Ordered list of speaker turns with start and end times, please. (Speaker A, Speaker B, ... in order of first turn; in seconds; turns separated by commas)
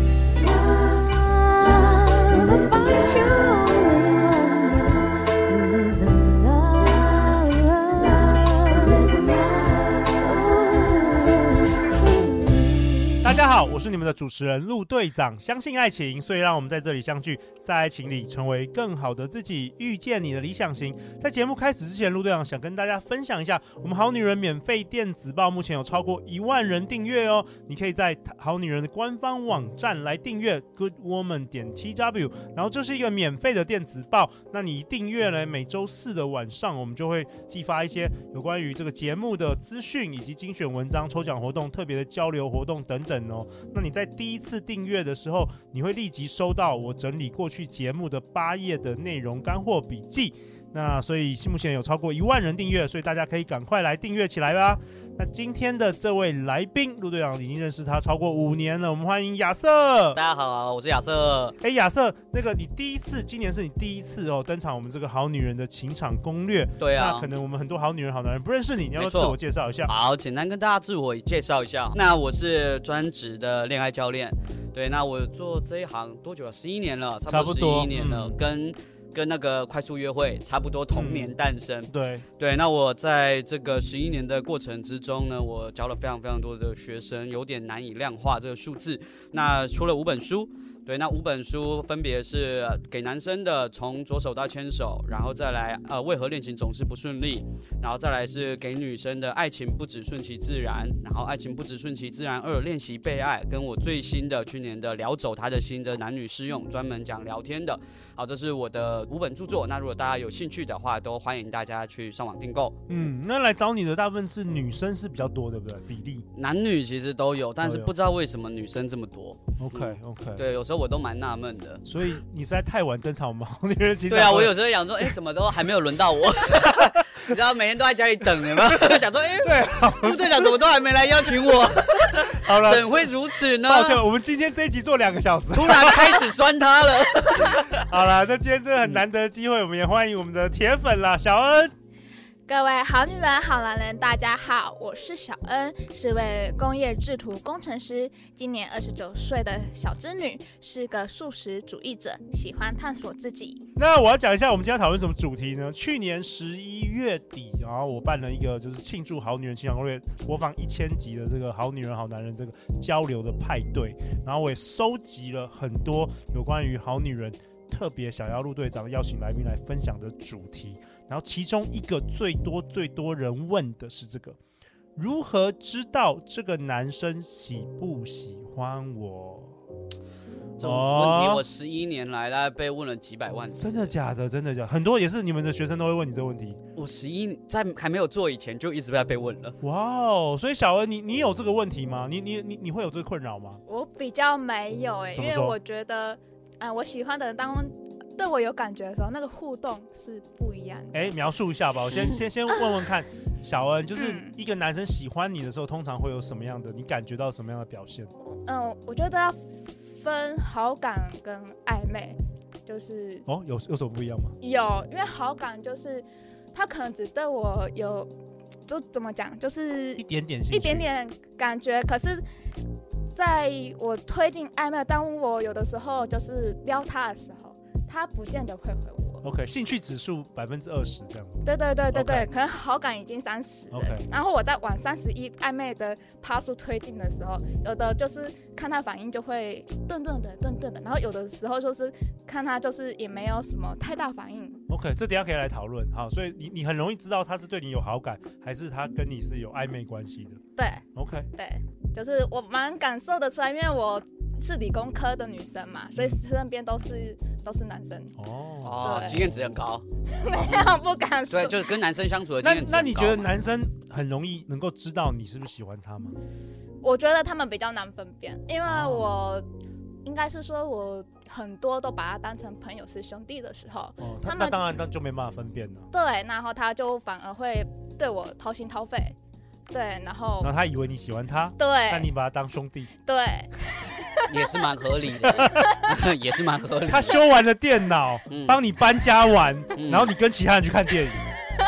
Speaker A: 0.3-13.2, Speaker B: 13.2-60.2, Speaker C: 60.1-61.5, Speaker B: 61.6-69.9, Speaker C: 66.8-67.3, Speaker C: 69.0-112.8, Speaker B: 77.3-78.4, Speaker B: 80.9-81.3, Speaker B: 81.9-82.2, Speaker B: 112.9-116.2, Speaker C: 116.3-121.8, Speaker B: 117.6-117.9, Speaker B: 119.6-120.4, Speaker B: 121.8-124.9, Speaker C: 124.1-134.0, Speaker B: 129.4-130.5, Speaker B: 132.1-132.9, Speaker B: 133.6-136.2, Speaker C: 135.5-137.8, Speaker B: 137.8-141.7, Speaker D: 142.5-153.6, Speaker B: 153.8-174.4, Speaker B: 174.9-179.6, Speaker C: 180.6-183.9, Speaker B: 180.6-181.4, Speaker B: 183.6-186.6, Speaker C: 186.8-189.6, Speaker B: 189.6-193.6, Speaker D: 193.7-201.2, Speaker B: 195.1-195.6, Speaker B: 200.9-208.1, Speaker D: 203.9-204.3, Speaker D: 208.2-209.4, Speaker D: 210.0-213.2, Speaker B: 213.3-214.3, Speaker D: 214.4-218.1, Speaker D: 218.7-222.2, Speaker B: 220.0-220.8, Speaker D: 223.1-229.2, Speaker B: 229.2-232.3, Speaker D: 231.4-244.6, Speaker B: 233.7-234.1, Speaker B: 244.7-250.4, Speaker D: 250.6-250.8, Speaker B: 250.9-251.3, Speaker D: 251.3-258.1, Speaker B: 258.2-259.1, Speaker C: 258.6-259.8, Speaker D: 258.8-259.3, Speaker D: 260.1-261.7, Speaker C: 261.3-263.2, Speaker B: 262.4-266.1, Speaker D: 266.8-269.4, Speaker B: 268.7-269.1, Speaker D: 270.0-274.6, Speaker B: 274.0-275.9, Speaker D: 275.9-279.1, Speaker D: 279.7-280.5, Speaker B: 280.4-282.9, Speaker D: 281.6-282.1, Speaker D: 283.1-283.6, Speaker C: 284.2-287.2, Speaker B: 285.2-285.6, Speaker B: 286.9-291.2, Speaker C: 288.3-288.6, Speaker C: 289.7-290.1